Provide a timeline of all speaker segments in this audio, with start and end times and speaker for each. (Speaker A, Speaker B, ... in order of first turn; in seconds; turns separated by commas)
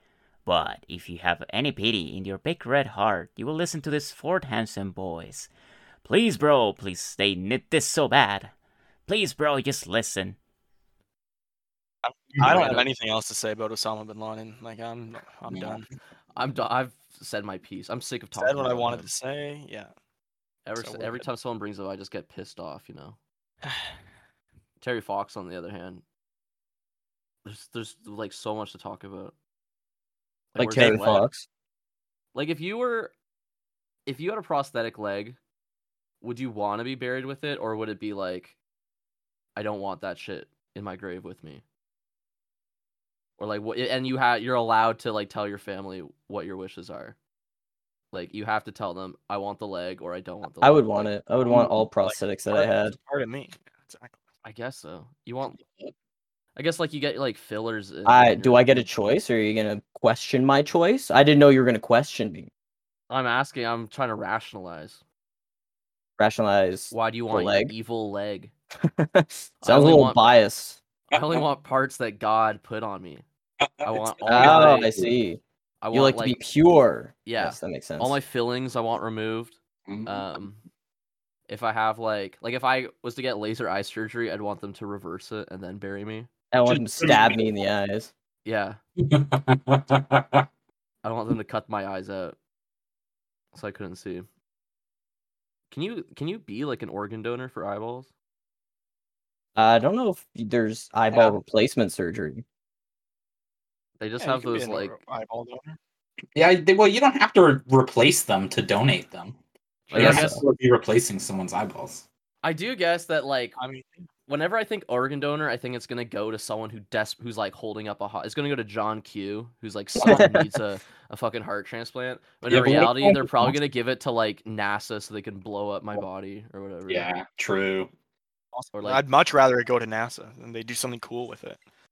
Speaker A: 0.4-5.5, Speaker A: 6.0-8.5, Speaker A: 9.1-10.4, Speaker B: 12.0-15.9, Speaker C: 12.4-12.9, Speaker D: 12.4-12.7, Speaker D: 15.5-15.8, Speaker C: 16.4-19.1, Speaker B: 18.3-19.9, Speaker C: 20.6-23.2, Speaker B: 20.8-21.2, Speaker B: 23.6-23.9, Speaker C: 24.8-26.0, Speaker C: 27.4-29.3, Speaker C: 30.5-31.3, Speaker E: 30.6-31.4, Speaker C: 32.3-33.1, Speaker C: 34.0-35.4, Speaker C: 36.2-38.5, Speaker C: 39.5-41.6, Speaker C: 43.4-47.2, Speaker C: 48.1-51.1, Speaker E: 50.6-53.0, Speaker B: 51.5-54.2, Speaker C: 54.4-55.6, Speaker D: 55.6-55.9, Speaker C: 56.5-58.9, Speaker E: 58.0-62.5, Speaker C: 63.1-65.0, Speaker E: 66.2-67.7, Speaker C: 66.9-68.5, Speaker E: 68.9-70.8, Speaker C: 69.6-70.2, Speaker C: 71.1-73.2, Speaker D: 71.1-71.4, Speaker D: 73.7-75.2, Speaker C: 73.8-74.9, Speaker E: 74.3-75.4, Speaker C: 75.8-76.4, Speaker E: 75.9-78.2, Speaker C: 77.2-80.6, Speaker D: 79.9-80.4, Speaker C: 81.5-86.3, Speaker E: 86.5-88.1, Speaker D: 86.7-87.4, Speaker C: 88.4-88.8, Speaker D: 89.0-90.5, Speaker C: 91.0-92.4, Speaker C: 93.5-94.3, Speaker C: 95.7-98.1, Speaker E: 99.5-102.4, Speaker C: 104.0-105.0, Speaker B: 104.2-105.8, Speaker D: 106.3-109.4, Speaker C: 109.9-110.4, Speaker D: 109.9-112.0, Speaker E: 109.9-110.4, Speaker C: 112.4-113.6, Speaker B: 113.6-114.1, Speaker C: 114.3-127.1, Speaker E: 120.0-120.5, Speaker D: 122.5-123.5, Speaker E: 122.6-122.9, Speaker D: 126.9-127.9, Speaker B: 128.5-131.6, Speaker C: 128.7-129.0